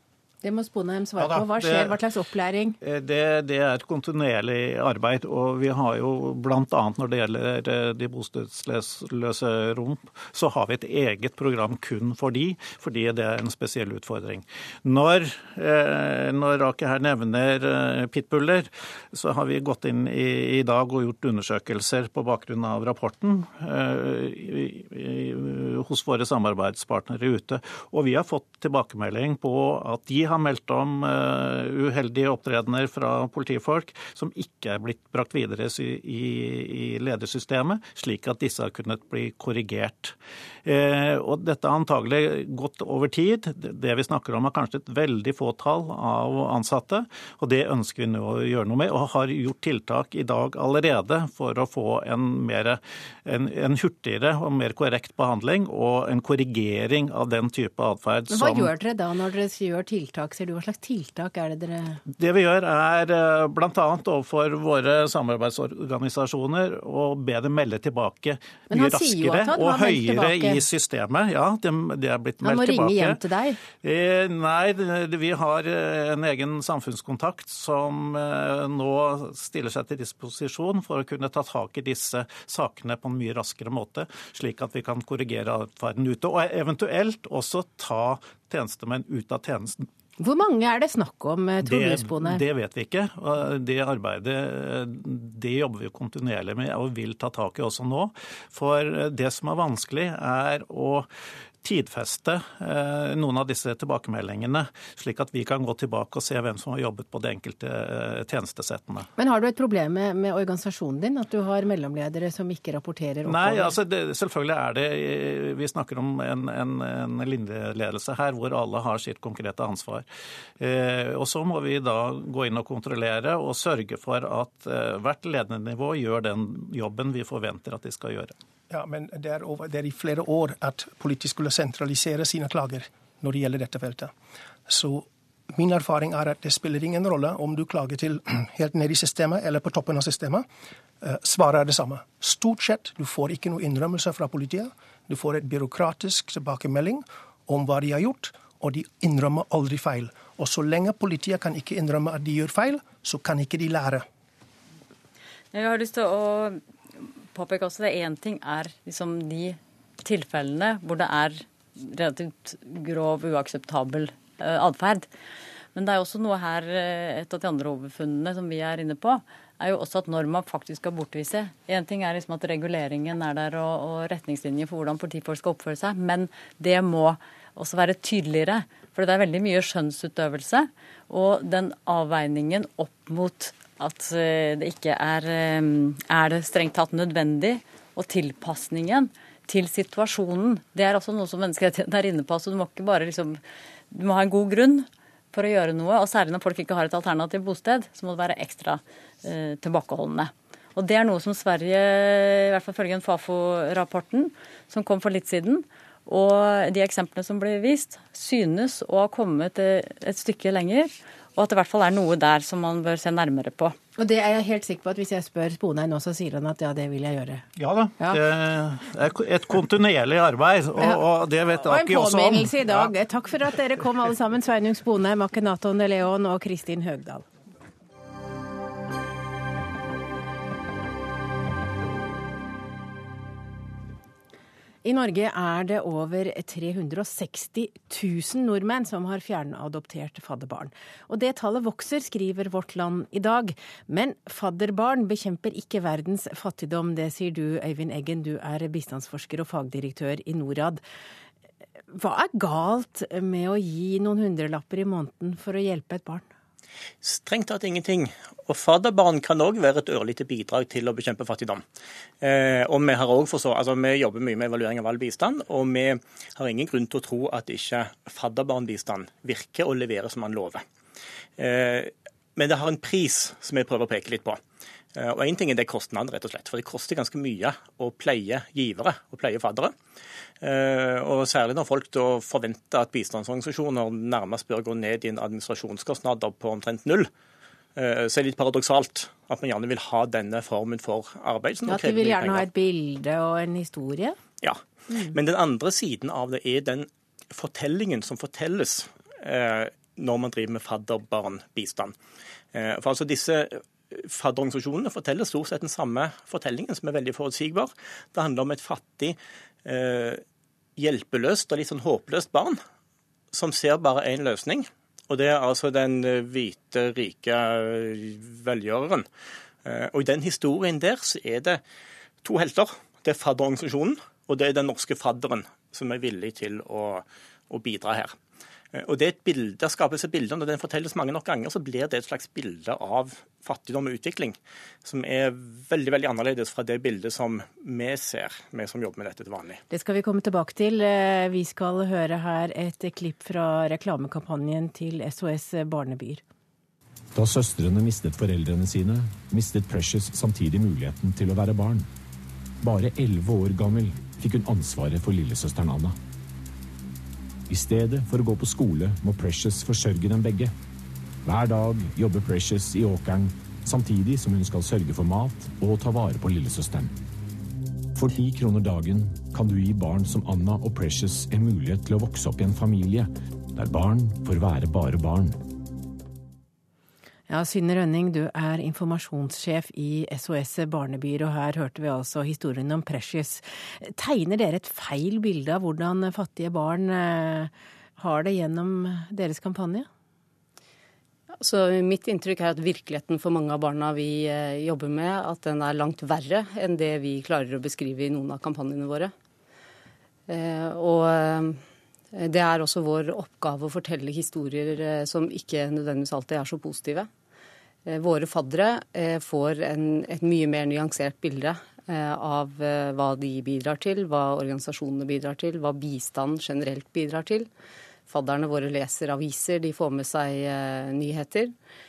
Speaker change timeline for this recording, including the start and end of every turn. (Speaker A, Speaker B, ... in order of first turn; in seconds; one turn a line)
Speaker A: 0.4-2.8
Speaker B: 1.2-2.0
Speaker B: 2.8-58.7
Speaker A: 58.3-62.0
Speaker B: 62.1-73.2
Speaker A: 68.7-70.6
Speaker A: 72.4-73.6
Speaker B: 73.8-89.8
Speaker A: 90.2-92.4
Speaker B: 91.6-101.1
Speaker B: 101.6-109.1
Speaker A: 109.2-113.7
Speaker B: 113.2-120.0
Speaker B: 120.6-128.3
Speaker C: 128.7-134.1
Speaker C: 134.7-140.4
Speaker C: 141.0-154.1
Speaker D: 155.5-165.1
Speaker D: 165.7-213.8
Speaker A: 214.0-217.4
Speaker B: 217.6-222.9
Speaker A: 221.6-227.2
Speaker A: 234.8-250.8
Speaker A: 251.9-256.2
Speaker E: 257.0-261.6
Speaker E: 262.2-270.6
Speaker E: 271.4-274.4
Speaker E: 274.9-279.7
Speaker E: 280.4-287.1
Speaker E: 287.8-292.5
Speaker A: 291.6-294.2
Speaker E: 294.4-301.9
Speaker E: 302.5-310.2
Speaker E: 310.8-312.6
Speaker E: 313.3-319.1
Speaker E: 319.6-321.6
Speaker E: 322.2-328.1
Speaker E: 328.7-339.6
Speaker A: 339.7-346.2
Speaker F: 347.1-351.9
Speaker F: 352.6-356.0
Speaker F: 357.5-360.5
Speaker F: 361.2-366.9
Speaker F: 367.9-375.4
Speaker A: 377.3-389.9
Speaker G: 391.4-399.1
Speaker G: 400.3-401.6
Speaker G: 402.1-407.1
Speaker G: 407.9-417.5
Speaker G: 418.1-421.5